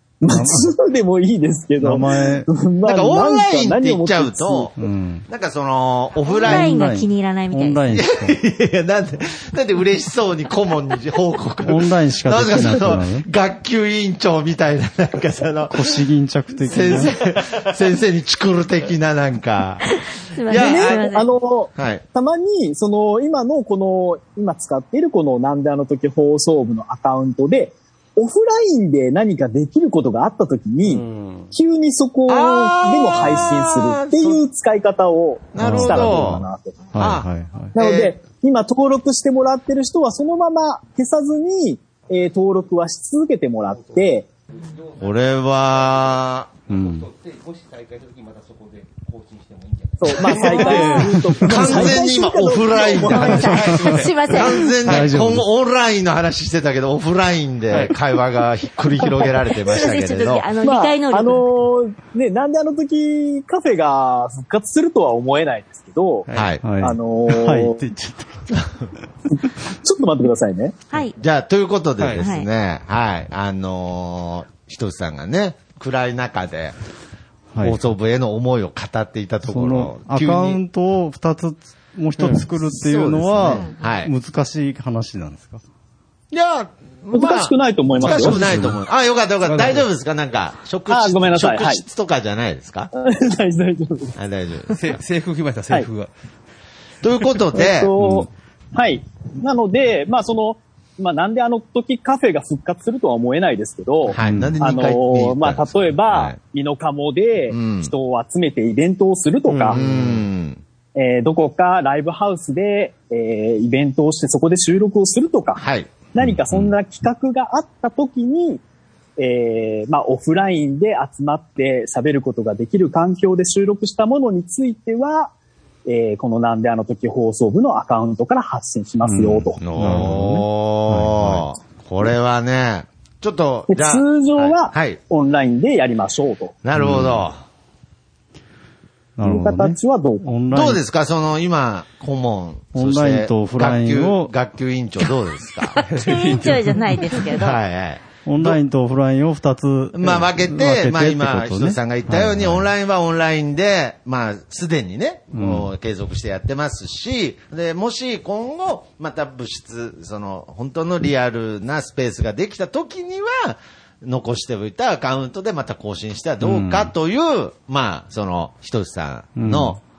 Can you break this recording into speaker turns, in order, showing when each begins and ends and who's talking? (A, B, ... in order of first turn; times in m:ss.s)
0:00.2-0:04.7 A
0:00.3-0:00.7 B
0:01.8-0:02.5 B
0:02.8-0:06.8 C
0:04.8-0:05.3 B
0:06.2-0:07.8 D
0:06.4-0:08.4 B
0:07.9-0:16.0 C
0:11.6-0:13.2 B
0:15.7-0:17.1 B
0:16.6-0:19.8 C
0:19.9-0:21.3 D
0:20.4-0:21.1 C
0:20.5-0:36.8 A
0:21.8-0:22.0 C
0:30.8-0:31.5 E
0:32.3-0:34.4 C
0:35.5-0:36.4 C
0:35.6-0:36.4 B
0:36.9-0:37.7 B
0:37.0-0:38.1 C
0:37.7-0:44.3 A
0:44.5-0:45.0 E
0:45.0-0:46.5 C
0:46.7-0:51.8 E
0:46.7-0:47.1 B
0:50.0-0:53.4 A
0:50.5-1:00.5 C
0:51.6-0:52.0 B
0:53.0-0:54.8 D
0:53.1-0:55.2 E
0:54.8-0:55.5 B
0:57.7-0:58.0 E
0:59.7-1:01.4 D
1:00.6-1:06.3 A
1:06.3-1:06.5 E
1:06.3-1:06.6 C
1:06.6-1:08.7 B
1:06.8-1:07.8 A
1:09.6-1:10.7 A
1:10.9-1:11.2 D
1:11.2-1:16.8 C
1:12.0-1:12.2 E
1:12.2-1:12.5 D
1:17.5-1:17.8 B
1:17.6-1:20.6 C
1:19.4-1:25.6 B
1:22.6-1:24.1 C
1:26.3-1:32.9 C
1:27.1-1:28.4 A
1:28.0-1:28.8 B
1:28.4-1:28.7 E
1:29.4-1:29.8 E
1:30.9-1:31.8 A
1:32.9-1:34.2 A
1:34.2-1:34.8 C
1:34.7-1:36.1 E
1:37.0-1:37.9 C
1:37.5-1:49.8 A
1:38.0-1:38.3 B
1:44.1-1:46.4 C
1:44.2-1:44.6 B
1:47.5-1:47.9 C
1:49.5-1:50.2 E
1:49.7-1:50.6 C
1:50.9-1:55.6 A
1:55.6-1:56.7 C
1:56.1-1:58.6 A
1:59.2-2:05.3 A
2:05.8-2:09.6 A
2:09.0-2:11.5 B
2:09.6-2:15.0 C
2:13.7-2:16.5 A
2:16.6-2:17.4 C
2:16.7-2:17.2 B
2:19.2-2:20.8 B
2:19.2-2:20.3 A
2:20.5-2:25.8 C
2:22.7-2:24.3 B
2:25.6-2:27.6 D
2:25.9-2:27.2 E
2:27.3-2:28.6 C
2:28.2-2:32.7 B
2:29.9-2:49.8 C
2:35.3-2:35.7 B
2:46.4-2:46.9 B
2:49.4-2:49.8 B